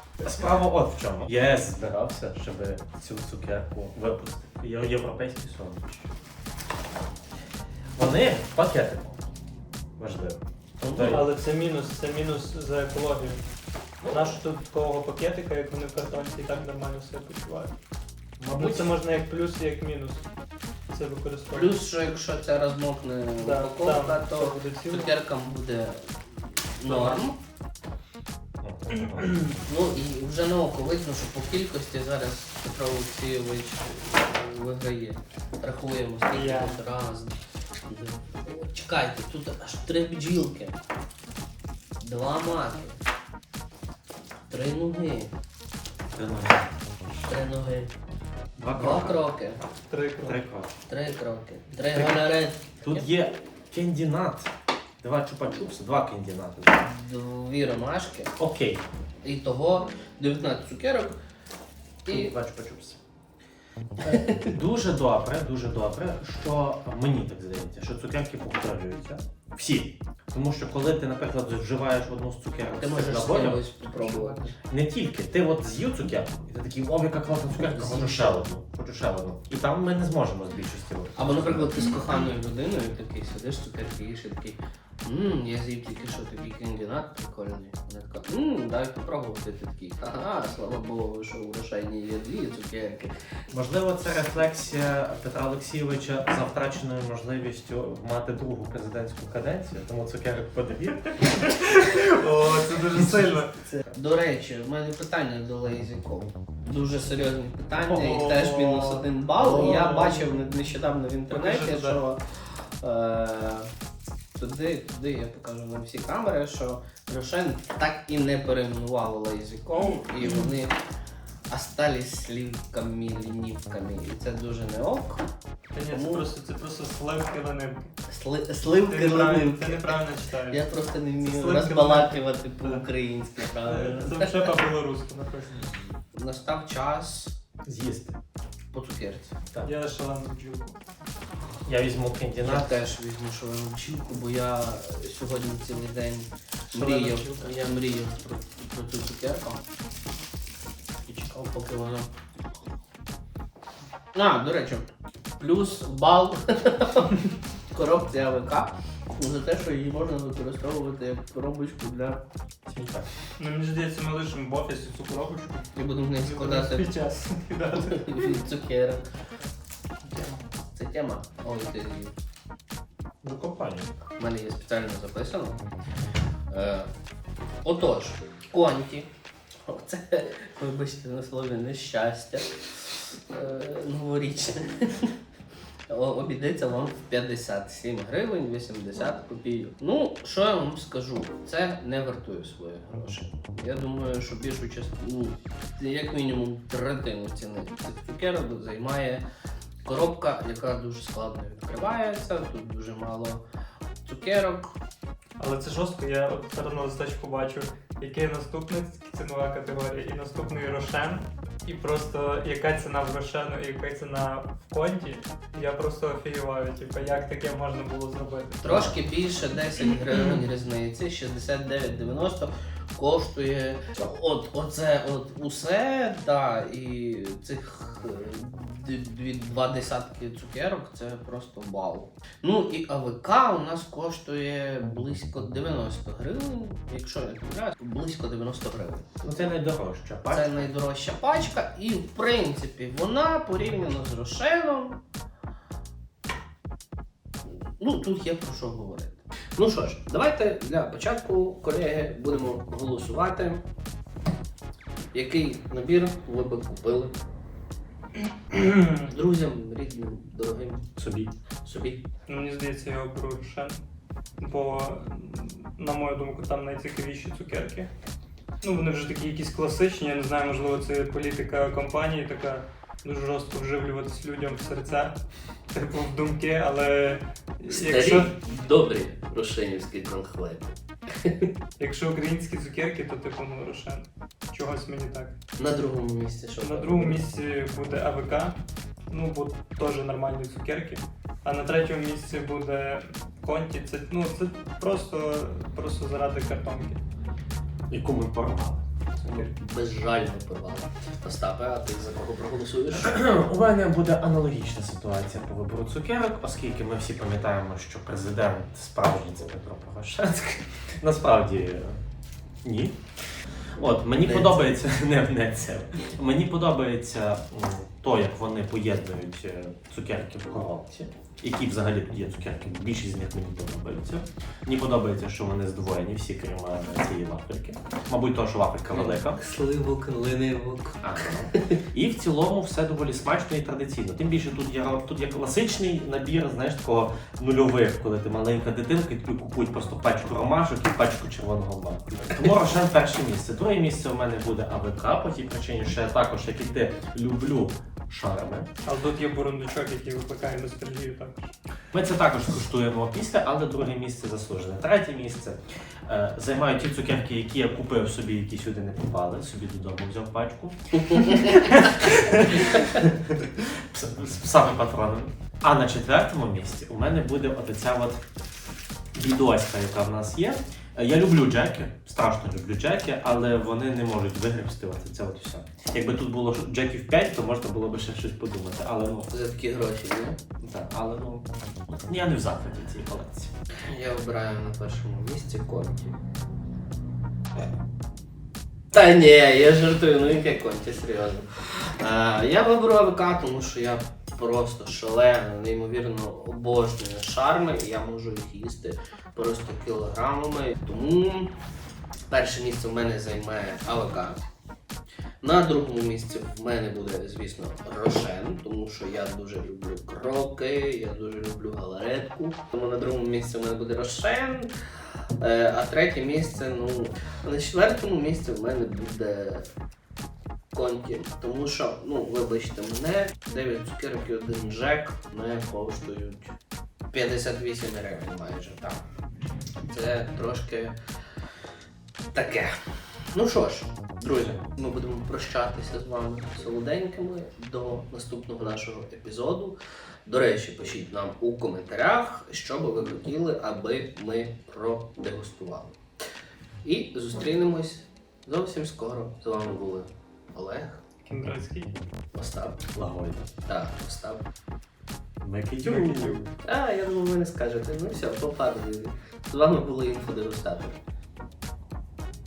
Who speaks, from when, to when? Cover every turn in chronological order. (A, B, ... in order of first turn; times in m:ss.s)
0:00.2-0:06.1 A
0:08.0-0:09.2 A
0:10.0-0:11.3 A
0:10.8-0:11.2 B
0:11.0-0:13.4 C
0:14.1-0:17.7 C
0:18.4-0:19.0 A
0:18.5-0:20.2 C
0:20.9-0:21.7 C
0:21.5-0:26.1 B
0:23.4-0:25.1 C
0:26.8-0:27.4 B
0:26.8-0:27.3 C
0:28.6-0:29.6 A
0:28.9-0:29.6 C
0:29.6-0:40.8 B
0:36.3-0:36.8 C
0:42.0-0:43.0 B
0:44.5-0:45.3 B
0:46.1-0:46.7 A
0:47.3-0:47.9 B
0:48.6-0:49.2 A
0:48.8-0:49.6 B
0:49.9-0:50.4 C
0:50.2-0:50.7 A
0:50.9-0:53.1 B
0:51.9-0:52.3 A
0:52.8-0:54.5 A
0:55.0-0:56.9 A
0:56.8-0:58.3 B
0:58.4-0:58.8 A
0:59.2-1:01.2 B
1:02.1-1:02.3 B
1:02.1-1:03.0 A
1:04.0-1:04.5 B
1:04.1-1:13.8 A
1:12.7-1:14.4 B
1:14.1-1:14.5 C
1:14.7-1:21.7 A
1:17.5-1:18.5 B
1:21.2-1:33.1 B
1:33.5-1:41.2 A
1:41.3-1:43.5 C
1:43.9-1:53.7 B
1:47.8-1:50.4 C
1:51.3-1:52.0 C
1:54.4-2:00.7 B
2:00.2-2:00.5 C
2:01.5-2:05.2 B
2:05.7-2:07.9 C
2:05.9-2:06.3 B
2:08.1-2:14.3 B
2:08.9-2:10.7 C
2:11.2-2:12.9 C
2:13.6-2:15.8 C
2:16.1-2:17.4 B
2:17.7-2:18.2 A
2:18.7-2:19.3 B
2:19.6-2:20.8 C
2:21.7-2:22.8 A
2:22.4-2:29.6 B
2:26.7-2:27.8 C
2:31.1-2:32.1 B
2:34.1-2:42.2 B
2:42.7-2:43.1 A
2:43.4-2:45.7 C
2:45.7-2:46.9 B
2:46.2-2:48.4 C
2:47.8-2:49.0 B
2:50.0-2:50.4 C
2:50.7-2:52.1 B
2:53.2-2:53.9 A
2:54.2-2:55.6 B
2:56.5-2:56.9 B
2:57.6-2:59.1 B
2:59.7-3:02.5 B
3:03.3-3:05.1 B
3:05.9-3:19.2 B
3:19.8-3:23.4 B
3:24.0-3:24.8 B
3:25.4-3:38.9 C
3:38.6-3:59.1 B
3:38.7-3:39.0 A
3:59.2-4:00.5 A
4:00.3-4:05.0 B
4:07.4-4:13.6 B
4:15.1-4:17.1 B
4:18.5-4:19.0 C
4:19.0-4:20.9 B
4:21.0-4:21.3 A
4:21.6-4:22.0 B
4:22.3-4:23.8 C
4:24.4-4:27.9 C
4:28.6-4:35.2 C
4:35.7-4:38.3 C
4:37.7-4:41.5 B
4:41.8-4:45.4 C
4:45.6-4:47.2 B
4:46.6-4:48.6 C
4:49.1-4:57.0 C
4:57.9-4:58.8 A
4:59.2-5:03.2 B
5:02.9-5:12.0 A
5:12.6-5:13.0 A
5:13.8-5:29.4 A
5:14.2-5:14.8 B
5:28.9-5:31.8 B
5:31.0-5:48.7 A
5:48.8-5:51.5 C
5:51.9-6:08.2 A
6:09.2-6:19.3 A
6:19.3-6:20.4 B
6:20.6-6:23.5 A
6:23.8-6:26.2 B
6:28.9-6:41.5 B
6:42.3-6:44.4 B
6:45.4-6:54.7 B
6:55.4-6:59.7 B
7:00.7-7:06.4 B
7:07.1-7:09.0 B
7:09.9-7:10.9 B
7:12.3-7:12.8 B
7:13.3-7:19.8 B
7:20.3-7:26.0 B
7:26.8-7:31.0 B
7:31.2-7:32.0 C
7:32.3-7:32.8 B
7:33.0-7:33.5 A
7:33.7-7:34.4 B
7:35.4-7:36.5 A
7:35.8-7:36.4 C
7:36.6-7:41.0 B